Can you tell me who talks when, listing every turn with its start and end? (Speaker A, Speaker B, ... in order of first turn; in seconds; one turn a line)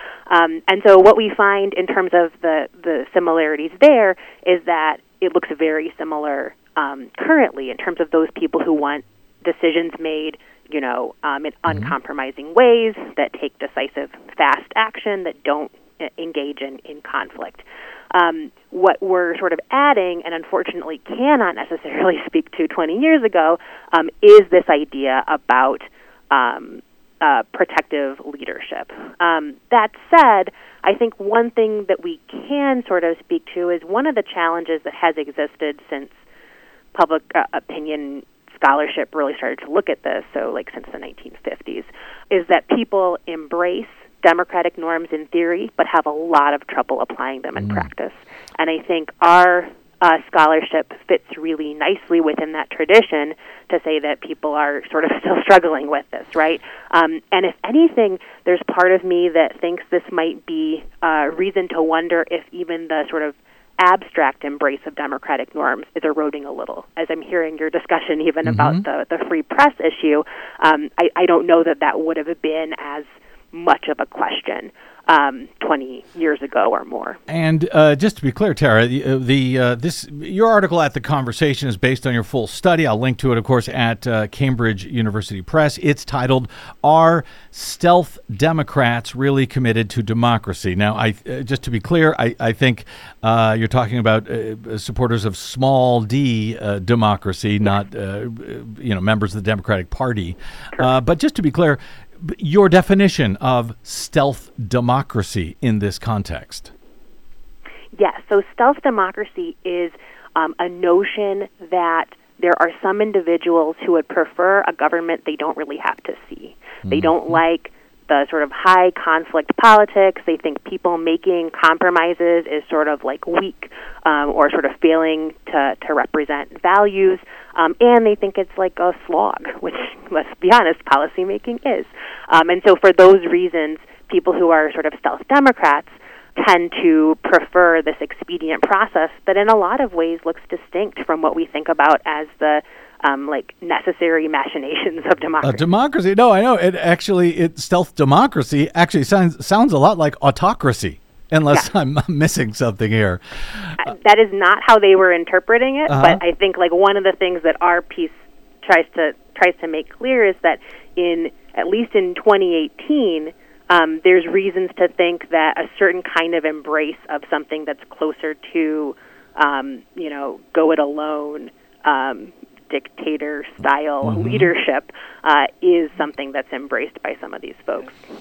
Speaker A: 0.3-36.2
Speaker B: 11.7-11.9
Speaker A: 37.0-77.2
Speaker B: 47.6-47.9
Speaker B: 68.4-68.9
Speaker B: 77.3-106.7
Speaker A: 108.0-145.7
Speaker B: 116.9-117.4
Speaker B: 145.4-153.8
Speaker A: 153.8-178.0
Speaker B: 155.9-156.2
Speaker B: 174.0-174.5